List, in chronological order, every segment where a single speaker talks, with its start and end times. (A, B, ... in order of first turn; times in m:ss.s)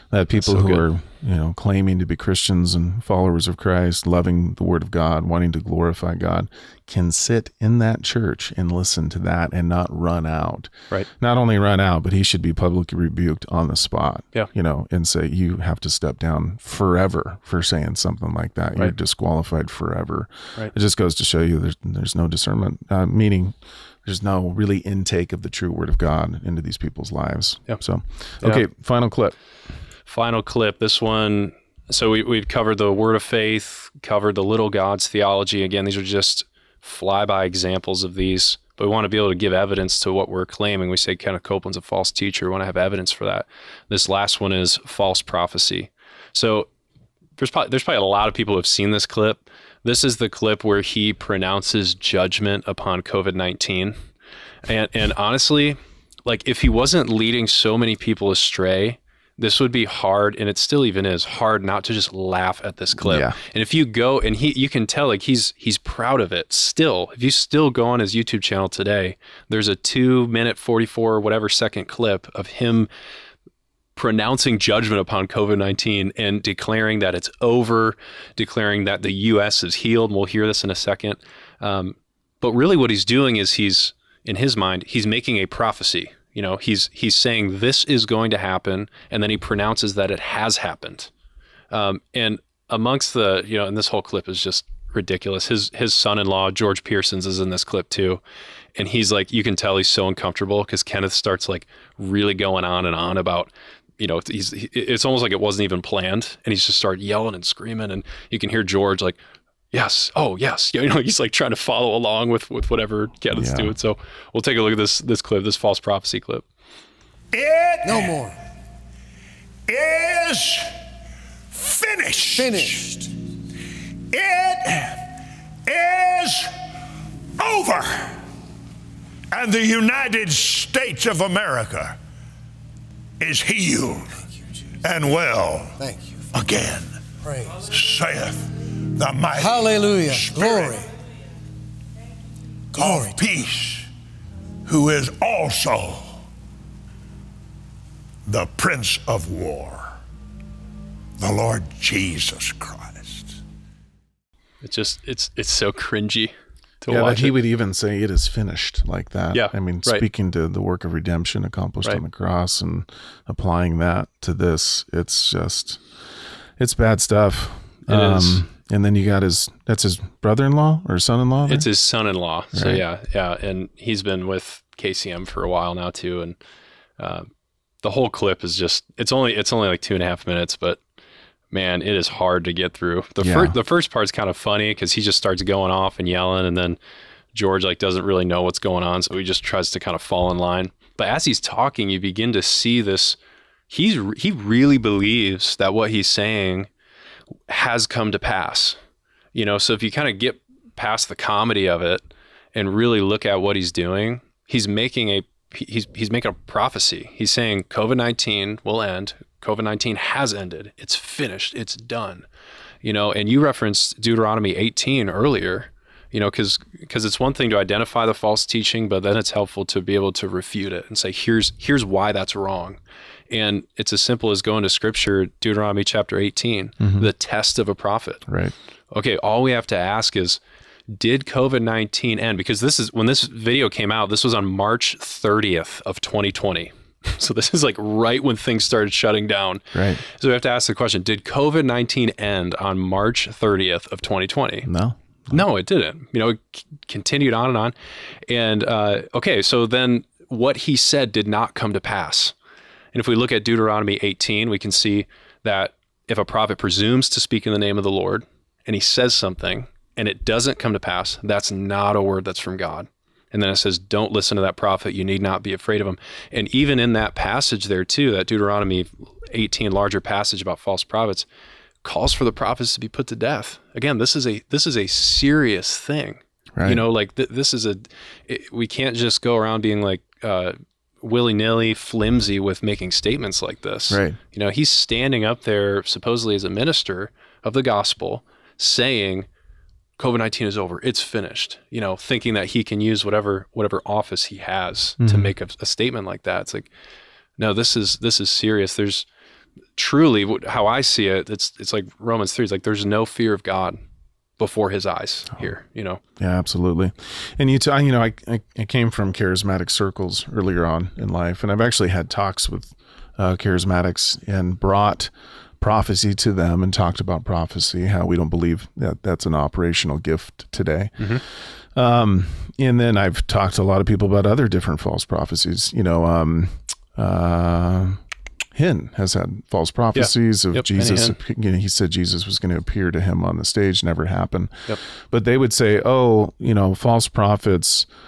0:00.1-0:29.4 A
0:00.4-0:00.8 B
0:30.1-0:46.7 B
0:47.4-0:54.0 B
0:54.6-1:12.9 B
1:03.0-1:03.4 A
1:14.0-1:31.1 B
1:31.7-1:38.2 B
1:38.8-1:49.2 B
1:49.7-1:56.5 B
1:53.3-1:53.8 A
1:57.3-1:58.2 C
1:57.8-1:58.4 D
1:59.7-2:00.7 C
2:01.5-2:03.0 C
2:02.3-2:03.1 D
2:04.1-2:06.6 C
2:07.4-2:08.2 C
2:09.3-2:12.0 C
2:13.2-2:14.2 C
2:14.8-2:15.8 C
2:15.8-2:16.5 D
2:16.3-2:17.1 C
2:17.2-2:17.6 D
2:17.6-2:20.9 C
2:19.4-2:20.9 D
2:22.7-2:23.2 D
2:22.7-2:23.9 C
2:24.6-2:26.2 C
2:28.3-2:30.0 C
2:31.2-2:33.4 C
2:34.6-2:37.4 B
2:36.9-2:45.8 A
2:39.3-2:40.0 B
2:46.6-2:51.7 A
2:47.9-2:48.4 B
2:51.5-2:56.4 B
2:52.5-2:52.8 A
2:57.0-2:57.3 B
2:57.8-3:00.8 B
3:01.5-3:06.8 B
3:03.2-3:03.6 A
3:07.3-3:13.2 B
3:13.7-3:16.7 B
3:17.5-3:18.8 B
3:19.3-3:32.3 B
3:32.8-3:48.2 B
3:46.8-3:47.1 A
3:48.3-3:48.5 A
3:48.9-4:04.7 B
3:59.7-4:00.0 A
4:04.6-4:05.4 A
4:05.3-4:07.7 B
4:08.3-4:12.4 B
4:12.9-4:31.3 B
4:31.8-4:49.3 B
4:36.6-4:36.8 A
4:43.9-4:44.2 A
4:50.0-4:56.7 B
4:55.0-4:55.3 A
4:57.4-4:59.1 B
4:59.8-5:03.8 B
5:04.4-5:06.0 B
5:06.2-5:28.0 A
5:28.6-5:37.9 A
5:30.0-5:31.2 B